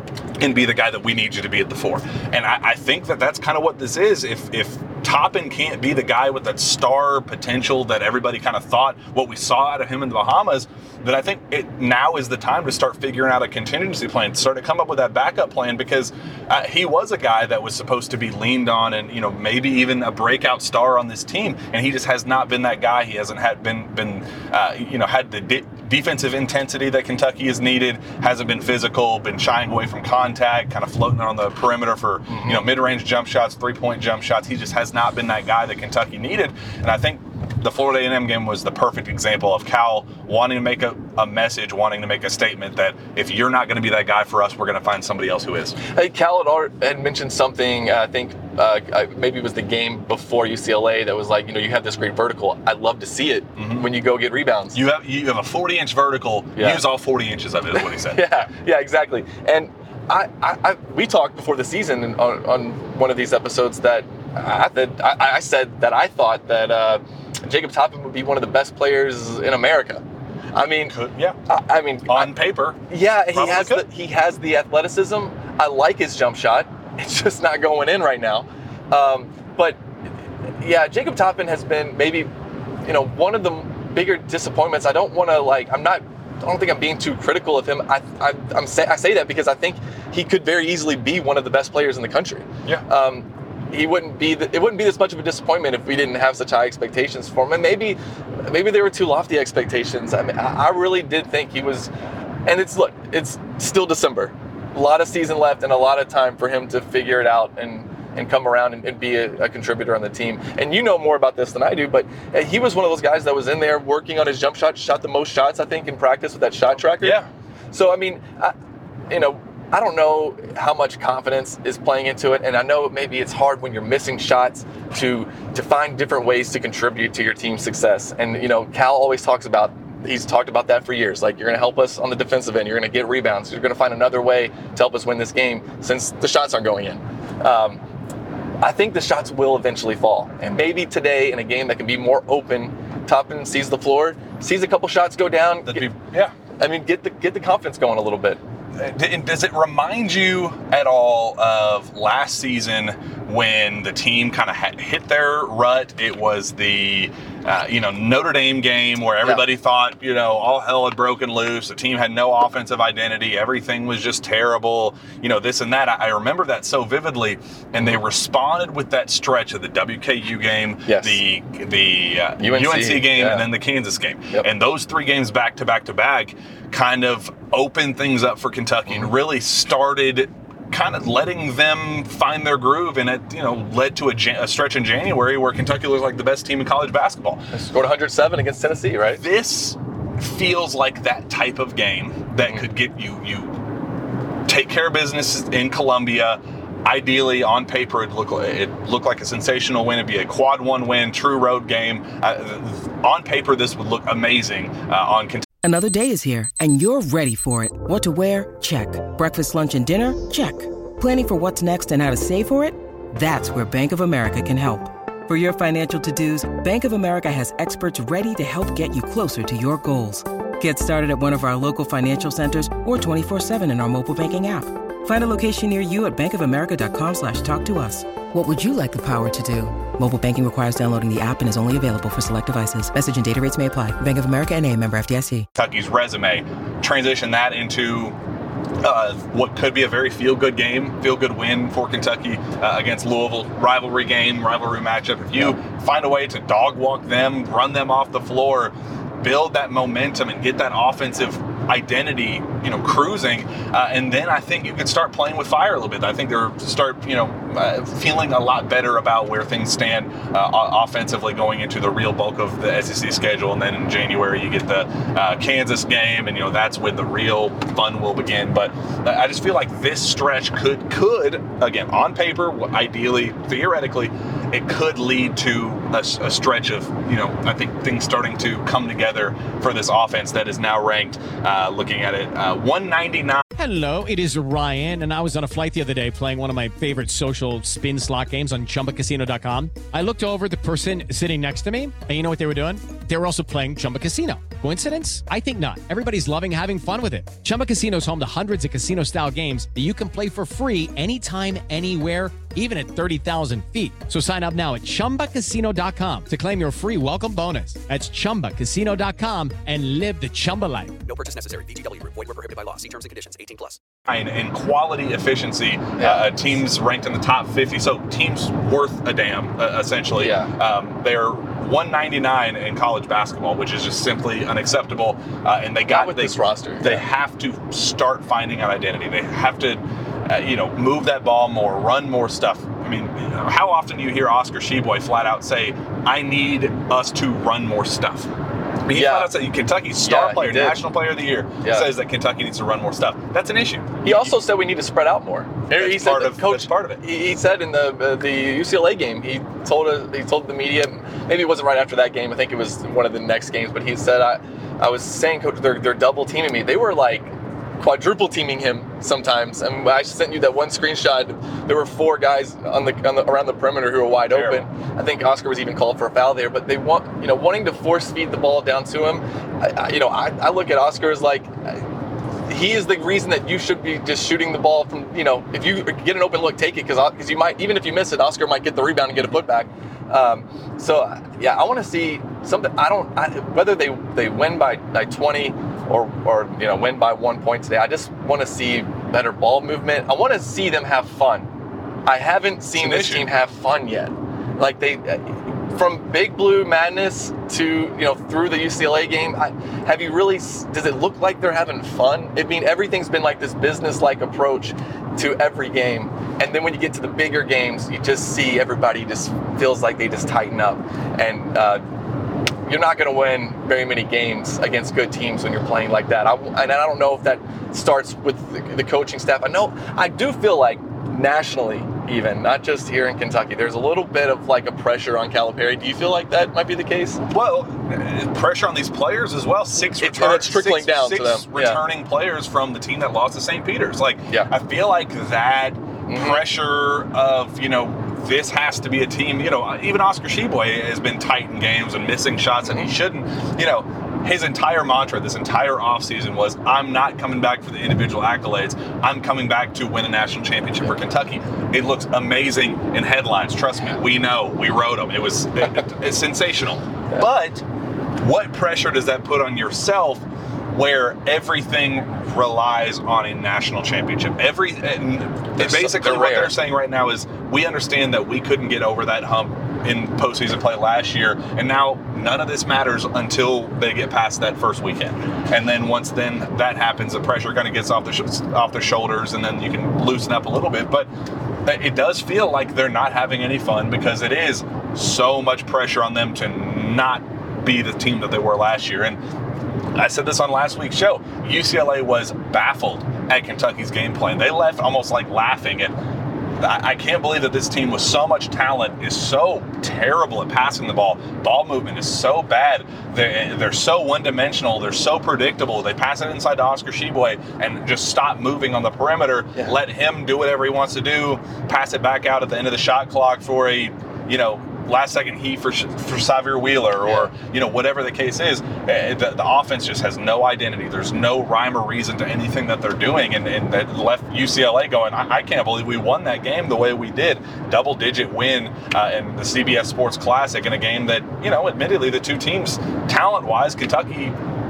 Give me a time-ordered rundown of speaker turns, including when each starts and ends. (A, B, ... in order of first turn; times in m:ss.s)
0:00.4-0:45.8 A
0:32.3-0:32.6 B
0:45.8-0:54.8 B
0:53.6-0:53.9 A
0:54.7-0:58.4 A
0:56.6-0:56.8 B
0:58.1-1:10.0 B
1:10.5-1:10.9 B
1:10.9-1:11.4 A
1:11.5-1:12.4 B
1:12.0-1:13.8 A
1:12.9-1:19.8 B
1:20.6-1:22.3 B
1:22.8-1:41.9 B
1:42.4-1:57.2 B
1:57.0-1:57.3 A
1:57.7-1:58.5 B
1:59.1-2:17.8 B
2:18.6-2:25.9 B
2:25.6-2:26.3 A
2:26.6-2:28.4 B
2:28.8-3:07.5 A
2:50.8-2:51.2 B
2:52.4-2:53.4 B
3:07.5-3:09.2 B
3:09.1-3:13.6 A
3:14.5-3:25.4 A
3:25.6-3:55.5 C
3:55.6-3:58.2 A
3:58.8-4:43.4 A
4:43.5-5:11.0 D
5:11.0-5:13.8 E
5:14.1-5:38.3 A
5:16.0-5:16.3 B
5:20.2-5:20.5 B
5:25.9-5:27.0 B
5:38.8-5:44.4 A
5:38.9-5:39.3 B
5:39.9-5:40.8 B
5:41.6-5:41.9 B
5:44.0-6:11.8 B
5:45.7-5:47.0 A
6:04.3-6:04.6 A
6:12.5-6:31.5 B
6:32.0-6:51.8 B
6:32.7-6:33.3 A
6:52.6-7:07.2 B
7:07.2-7:37.6 A
7:10.0-7:11.8 B
7:16.1-7:16.4 B
7:22.6-7:22.9 B
7:38.2-8:01.1 A
7:45.6-7:46.5 B
8:01.6-8:09.2 A
8:09.9-8:15.9 A
8:16.6-8:54.4 A